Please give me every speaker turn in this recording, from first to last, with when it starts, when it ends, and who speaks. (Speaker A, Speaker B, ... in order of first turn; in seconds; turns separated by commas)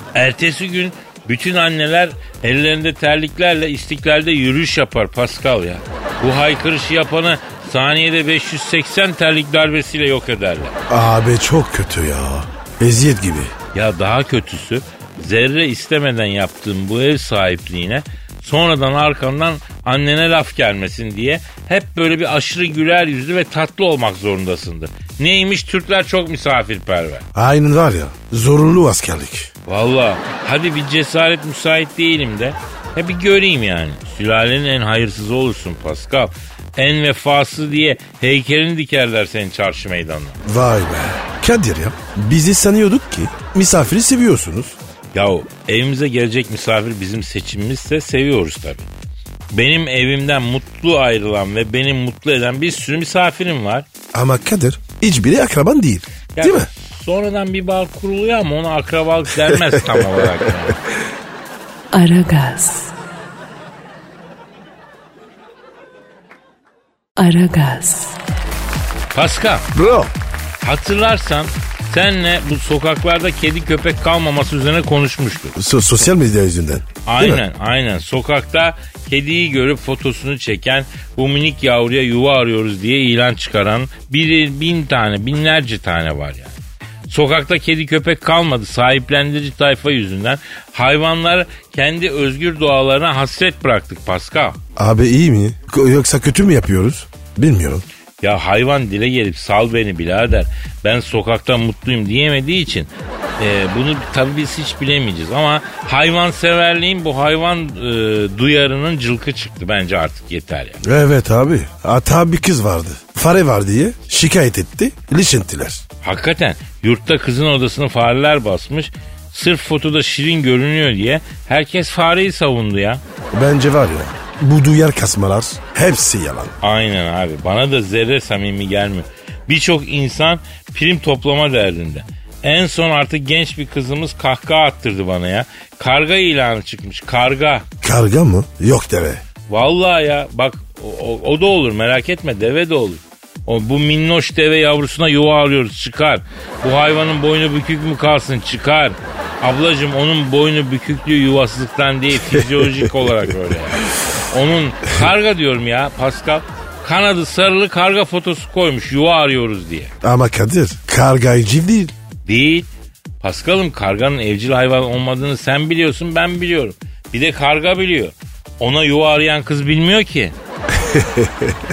Speaker A: 0.1-10.8, Speaker B: 10.9-13.5, Speaker A: 13.7-27.2, Speaker B: 27.3-29.5, Speaker A: 29.7-40.4, Speaker B: 40.4-44.8, Speaker A: 45.1-48.9, Speaker A: 49.5-53.9, Speaker B: 54.1-56.7, Speaker A: 56.4-60.8, Speaker C: 61.9-62.9, Speaker C: 67.2-68.2, Speaker A: 69.1-69.7, Speaker B: 69.7-70.1, Speaker A: 70.6-75.5, Speaker B: 75.5-77.4, Speaker A: 77.1-86.6, Speaker A: 87.1-94.6, Speaker B: 94.8-97.8, Speaker A: 98.2-110.8, Speaker B: 110.8-115.8, Speaker A: 116.0-123.0, Speaker B: 123.3-126.5, Speaker A: 126.6-137.7, Speaker B: 137.8-139.2, Speaker A: 139.5-159.9, Speaker B: 152.3-152.8, Speaker B: 160.0-161.9, Speaker A: 162.2-162.7, Speaker A: 163.2-170.4, Speaker B: 170.8-171.6